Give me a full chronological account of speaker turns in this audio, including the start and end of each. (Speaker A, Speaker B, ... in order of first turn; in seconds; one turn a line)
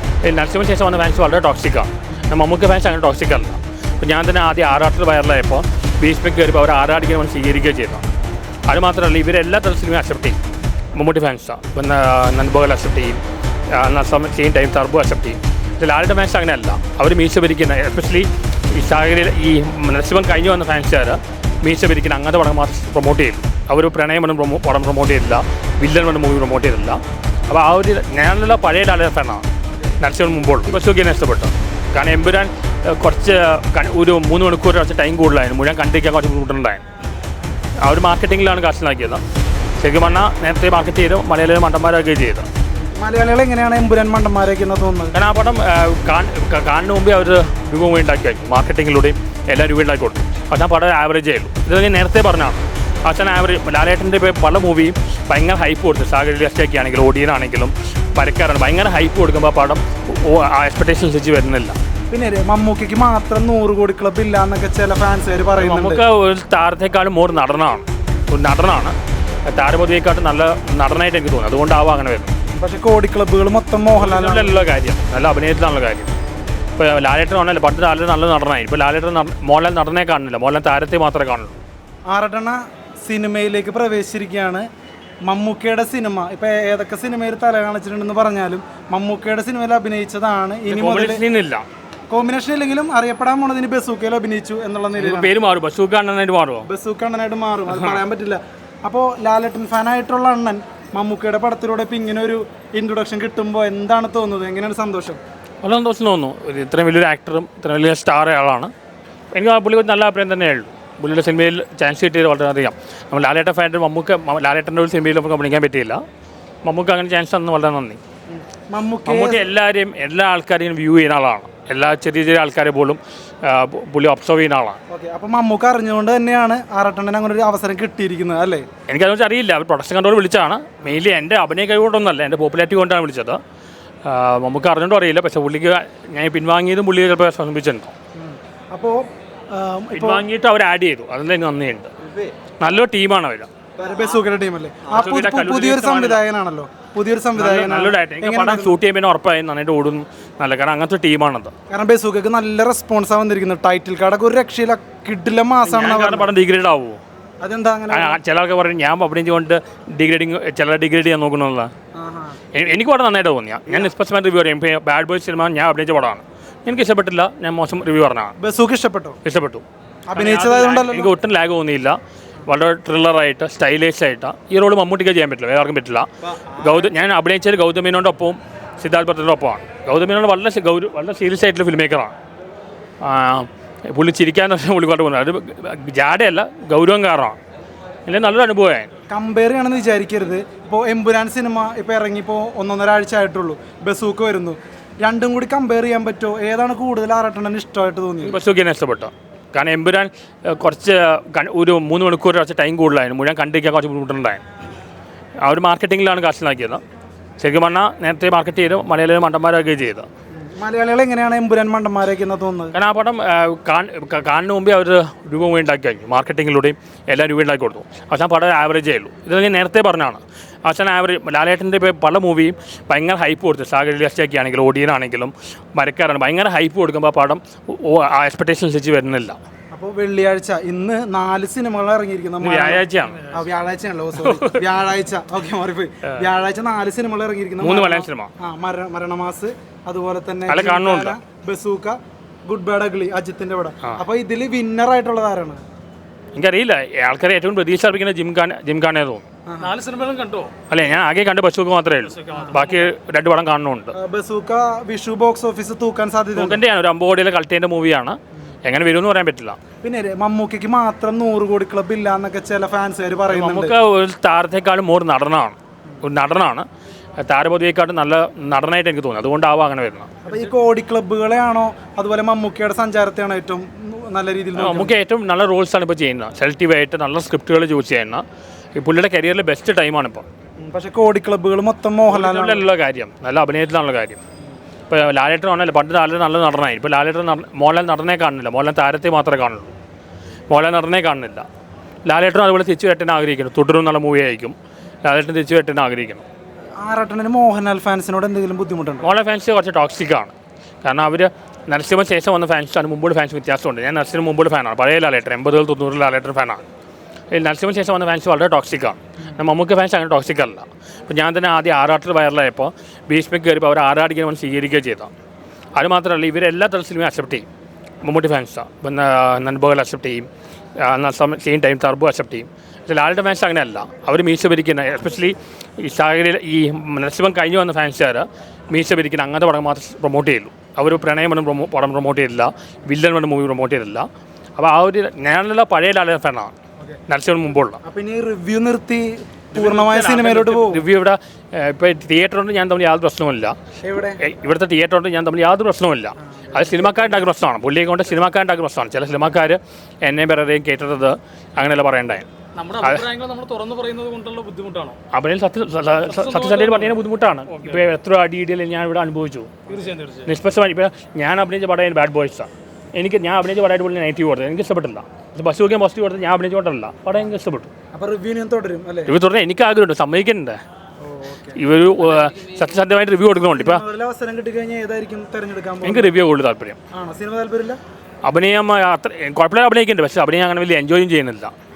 Speaker A: 0.2-8.1
Speaker A: 8.7-10.4
Speaker A: 10.9-29.5
Speaker A: 30.0-36.8
Speaker A: 37.8-39.2
Speaker A: 39.8-42.5
Speaker B: 43.0-45.2
Speaker A: 45.1-61.8
Speaker B: 62.1-66.0
Speaker A: 65.6-69.0
Speaker A: 69.5-72.3
Speaker B: 72.5-74.6
Speaker A: 74.0-76.1
Speaker A: 76.8-81.6
Speaker B: 82.1-84.7
Speaker B: 85.2-91.2
Speaker A: 90.7-91.7
Speaker B: 92.1-95.3
Speaker A: 95.0-96.7
Speaker B: 96.7-105.2
Speaker A: 97.7-98.0
Speaker A: 105.6-108.7
Speaker A: 109.3-116.0
Speaker A: 116.6-118.0
Speaker B: 118.3-119.4
Speaker A: 119.0-124.8
Speaker B: 124.9-128.7
Speaker A: 128.9-133.4
Speaker A: 134.0-137.9
Speaker B: 138.2-139.0
Speaker B: 139.5-140.2
Speaker A: 139.9-141.9
Speaker A: 142.6-143.5
Speaker B: 143.8-148.8
Speaker A: 144.9-146.2
Speaker A: 147.4-151.5
Speaker B: 151.7-156.3
Speaker A: 155.6-157.0
Speaker B: 157.4-158.2
Speaker A: 157.9-161.7
Speaker B: 162.0-162.4
Speaker A: 162.5-168.4
Speaker B: 168.4-169.2
Speaker A: 169.2-182.1
Speaker B: 170.1-171.1
Speaker A: 183.0-187.4
Speaker A: 188.1-188.9
Speaker B: 189.1-198.4
Speaker A: 198.2-204.4
Speaker A: 205.4-206.8
Speaker A: 207.4-210.1
Speaker B: 210.6-212.8
Speaker A: 212.7-229.4
Speaker B: 229.7-245.6
Speaker A: 232.4-233.4
Speaker A: 234.2-234.7
Speaker A: 237.6-238.3
Speaker A: 240.5-241.2
Speaker A: 246.3-249.3
Speaker B: 249.5-249.8
Speaker C: 249.6-250.6
Speaker A: 250.7-253.9
Speaker C: 252.2-252.8
Speaker B: 253.9-256.6
Speaker A: 256.4-259.6
Speaker B: 259.8-263.7
Speaker A: 263.3-266.7
Speaker A: 267.2-270.2
Speaker B: 270.2-274.9
Speaker A: 274.6-278.2
Speaker A: 278.8-280.3
Speaker B: 280.6-282.6
Speaker A: 282.1-284.2
Speaker A: 284.9-289.7
Speaker A: 290.5-291.4
Speaker A: 292.1-296.2
Speaker B: 296.8-299.1
Speaker A: 299.0-306.6
Speaker A: 307.3-315.1
Speaker A: 315.8-317.5
Speaker A: 318.0-320.3
Speaker A: 320.8-336.5
Speaker A: 337.1-337.8
Speaker B: 337.8-340.8
Speaker A: 339.5-343.6
Speaker B: 343.8-344.2
Speaker A: 344.2-352.3
Speaker B: 346.2-347.2
Speaker C: 352.6-355.0
Speaker A: 352.8-353.1
Speaker A: 355.1-359.7
Speaker C: 356.1-357.0
Speaker C: 357.5-357.8
Speaker C: 359.7-360.3
Speaker A: 360.3-367.7
Speaker B: 367.9-369.1
Speaker A: 369.1-370.6
Speaker B: 371.0-371.6
Speaker A: 371.6-373.8
Speaker B: 373.5-376.1
Speaker A: 375.8-376.8
Speaker B: 376.9-377.8
Speaker A: 378.2-381.5